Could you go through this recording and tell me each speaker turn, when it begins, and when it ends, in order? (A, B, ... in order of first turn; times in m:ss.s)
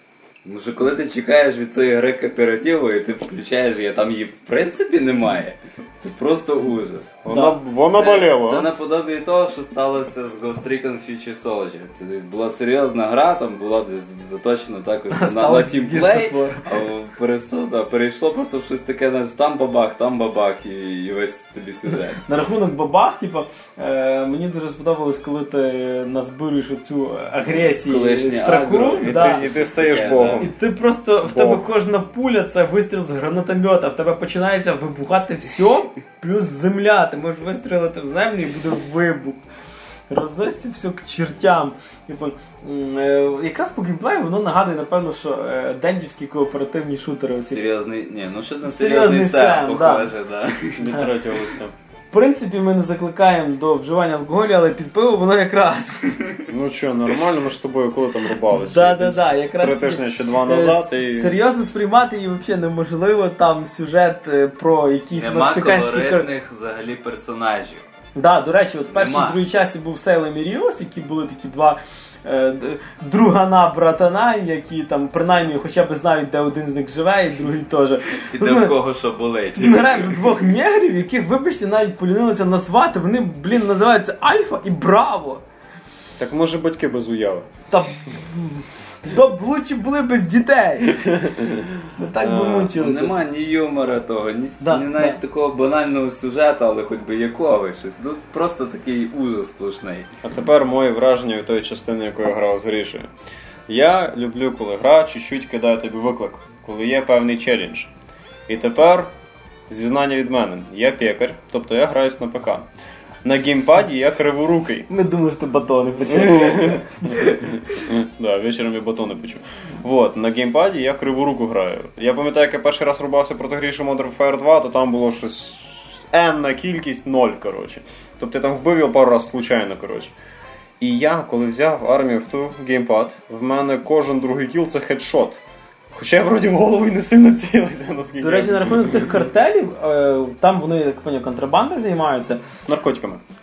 0:00.4-0:07.2 A
0:07.2-0:08.7 B
0:07.3-0:07.6 C
0:08.0-0:22.2 A
0:15.1-0:16.7 C
0:22.2-0:29.5 C
0:27.7-0:30.5 A
0:28.7-0:30.5 B
0:30.4-0:39.4 C
0:31.2-0:31.6 B
0:40.1-0:47.6 C
0:47.4-0:51.1 A
0:48.6-0:50.1 C
0:50.8-0:51.7 B
0:52.1-0:56.4 C
0:56.5-1:01.4 B
0:58.5-1:06.3 C
1:05.2-1:07.8 A
1:08.2-1:18.7 C
1:08.9-1:09.4 A
1:18.4-1:20.2 A
1:19.6-1:25.4 C
1:26.2-1:27.5 B
1:27.7-1:33.2 C
1:32.2-1:32.7 B
1:32.7-1:40.1 A
1:34.6-1:35.2 C
1:40.2-1:43.1 B
1:43.7-1:47.9 B
1:48.5-1:49.1 B
1:49.7-1:52.7 B
1:53.2-1:54.9 B
1:54.9-1:57.8 C
1:56.1-2:10.1 B
2:10.8-2:15.4 B
2:15.9-2:19.1 B
2:18.2-2:22.4 C
2:22.7-2:23.2 B